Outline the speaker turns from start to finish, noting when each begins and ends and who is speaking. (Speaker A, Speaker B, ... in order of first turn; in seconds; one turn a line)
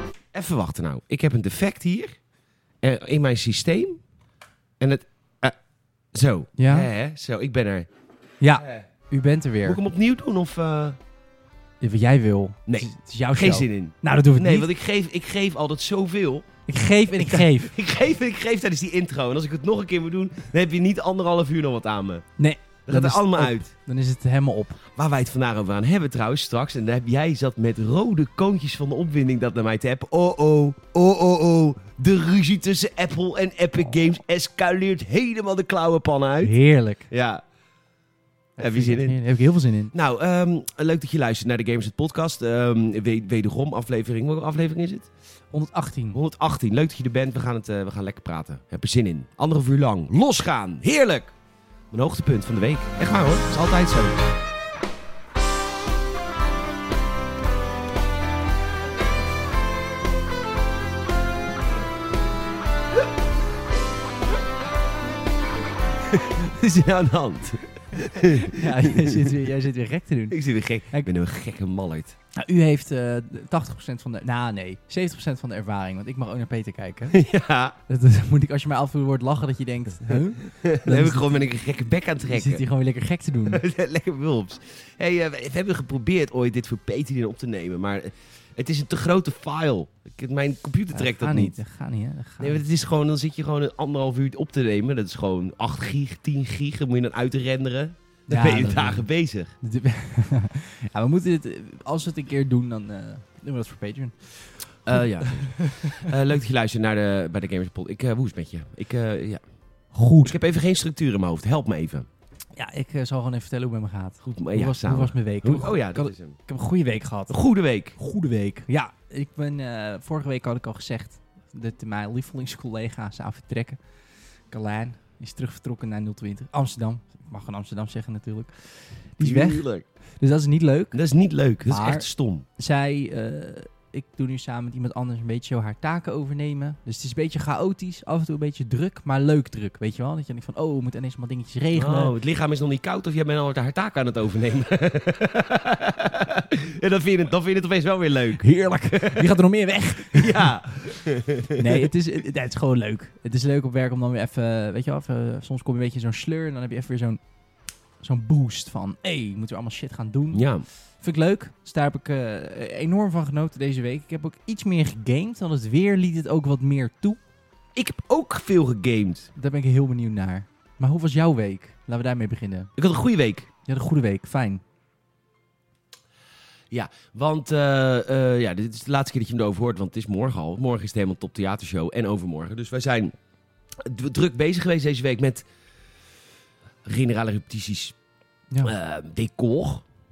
Speaker A: 0.3-2.2
Speaker A: 2.8-4.0
Speaker A: 4.8-5.5
Speaker A: 6.1-7.9
Speaker B: 6.6-6.9
Speaker B: 8.4-9.8
Speaker A: 9.6-11.0
Speaker B: 11.8-14.7
Speaker A: 12.7-16.5
Speaker B: 16.7-17.7
Speaker A: 17.1-22.2
Speaker B: 22.4-24.8
Speaker A: 22.9-23.7
Speaker A: 24.9-36.5
Speaker B: 36.4-37.1
Speaker A: 37.1-37.4
Speaker B: 38.6-39.9
Speaker A: 38.6-39.2
Speaker A: 39.9-45.1
Speaker B: 45.5-46.2
Speaker A: 46.1-51.3
Speaker A: 51.9-54.2
Speaker A: 66.0-69.3
Speaker B: 68.4-71.1
Speaker A: 70.3-72.2
Speaker B: 72.3-77.2
Speaker A: 77.1-77.8
Speaker B: 77.9-81.4
Speaker A: 80.4-82.6
Speaker B: 82.2-83.6
Speaker A: 83.5-91.6
Speaker B: 90.9-92.6
Speaker A: 92.4-99.5
Speaker B: 98.3-99.1
Speaker B: 99.6-106.1
Speaker A: 104.8-109.4
Speaker B: 109.9-110.4
Speaker A: 110.2-112.1
Speaker B: 112.5-117.3
Speaker A: 114.2-116.3
Speaker A: 117.3-118.0
Speaker B: 118.0-123.8
Speaker B: 124.5-129.7
Speaker A: 129.2-129.9
Speaker B: 130.2-131.0
Speaker A: 130.9-132.4
Speaker B: 131.7-142.1
Speaker A: 141.7-151.9
Speaker B: 148.4-151.0
Speaker B: 151.6-157.2
Speaker B: 158.0-160.5
Speaker A: 160.3-160.6
Speaker B: 161.0-167.2
Speaker A: 167.7-169.3
Speaker B: 169.3-172.7
Speaker A: 172.8-173.5
Speaker B: 173.7-174.6
Speaker A: 176.7-183.1
Speaker A: 183.8-185.4
Speaker A: 186.8-187.9
Speaker A: 188.6-189.8